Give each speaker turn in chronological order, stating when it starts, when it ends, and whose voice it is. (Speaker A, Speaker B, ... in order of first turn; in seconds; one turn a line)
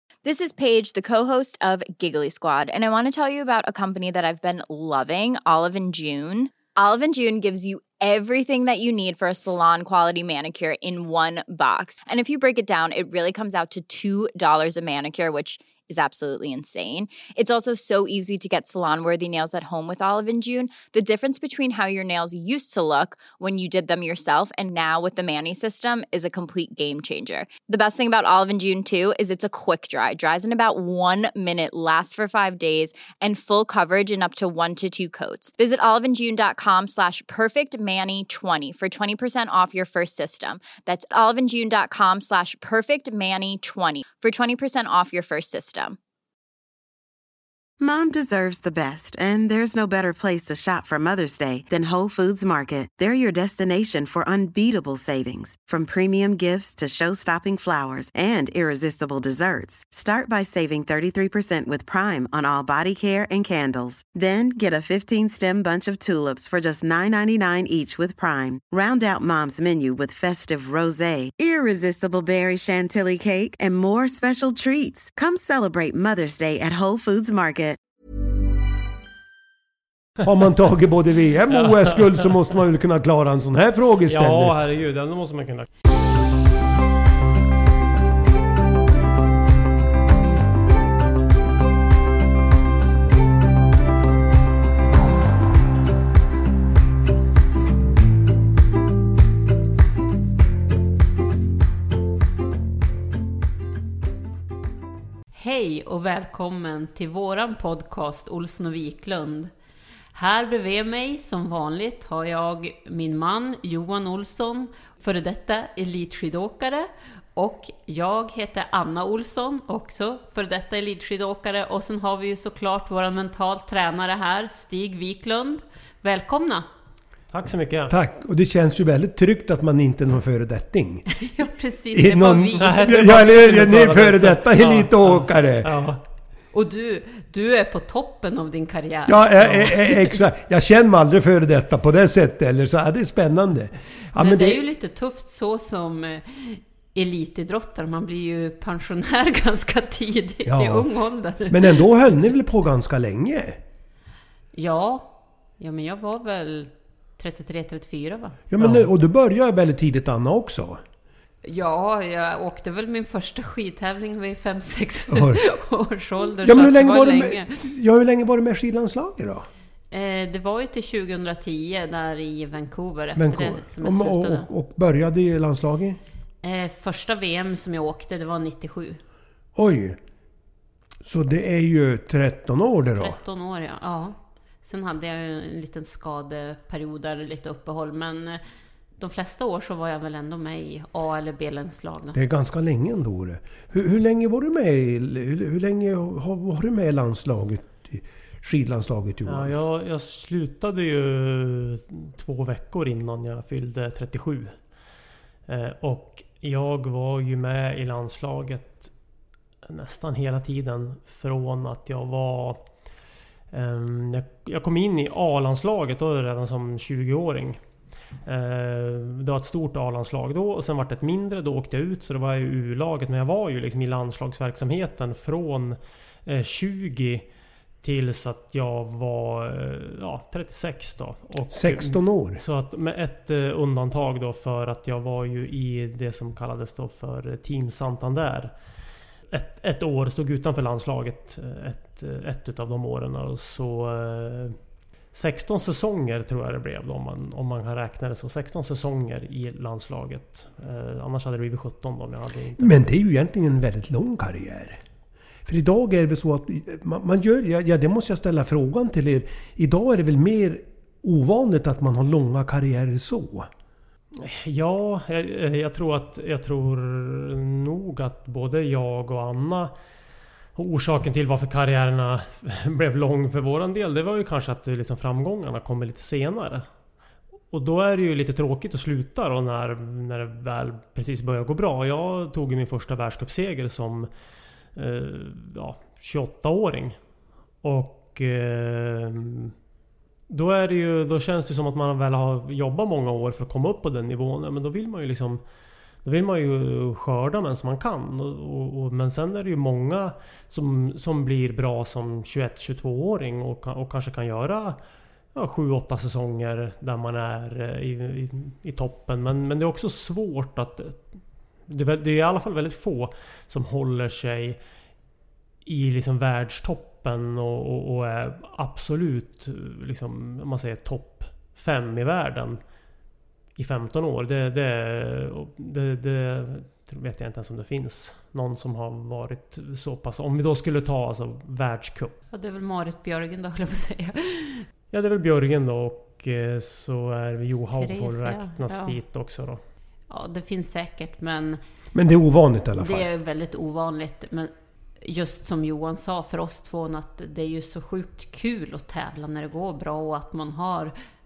Speaker A: 0.2-46.0
Speaker B: 47.8-77.8
Speaker C: 80.2-84.5
Speaker D: 81.5-82.3
Speaker D: 84.1-85.7
Speaker E: 105.3-109.5
Speaker E: 110.1-126.7
Speaker D: 127.3-127.9
Speaker C: 127.9-131.1
Speaker E: 131.2-132.9
Speaker C: 131.9-135.8
Speaker D: 132.6-136.0
Speaker E: 136.5-139.5
Speaker C: 139.1-144.6
Speaker E: 144.2-151.8
Speaker C: 150.4-150.9
Speaker C: 151.5-153.6
Speaker E: 154.5-158.4
Speaker C: 158.5-160.8
Speaker D: 158.6-158.9
Speaker E: 161.4-167.6
Speaker C: 165.1-165.4
Speaker C: 166.4-169.5
Speaker E: 169.9-174.5
Speaker C: 173.1-176.0
Speaker E: 176.4-179.0
Speaker C: 179.6-180.0
Speaker C: 181.0-183.2
Speaker E: 182.9-188.4
Speaker E: 189.0-192.2
Speaker C: 192.1-199.5
Speaker D: 199.2-204.6
Speaker D: 205.5-208.9
Speaker D: 209.6-212.6
Speaker D: 213.5-217.6
Speaker D: 218.2-227.3
Speaker D: 227.8-238.5
Speaker C: 231.5-232.4
Speaker D: 239.3-244.6
Speaker D: 245.1-252.8
Speaker C: 252.6-254.8
Speaker C: 255.4-263.5
Speaker D: 264.1-269.7
Speaker D: 270.6-276.7
Speaker D: 277.5-284.1
Speaker D: 284.7-287.0
Speaker D: 287.6-289.5
Speaker D: 290.3-295.4
Speaker D: 296.0-304.8
Speaker D: 305.3-311.1
Speaker D: 311.7-314.6
Speaker D: 315.6-322.6
Speaker D: 323.6-332.1
Speaker E: 332.3-334.6
Speaker D: 334.9-339.6
Speaker E: 337.8-338.9
Speaker E: 340.1-341.6
Speaker C: 341.9-343.1
Speaker E: 342.8-350.9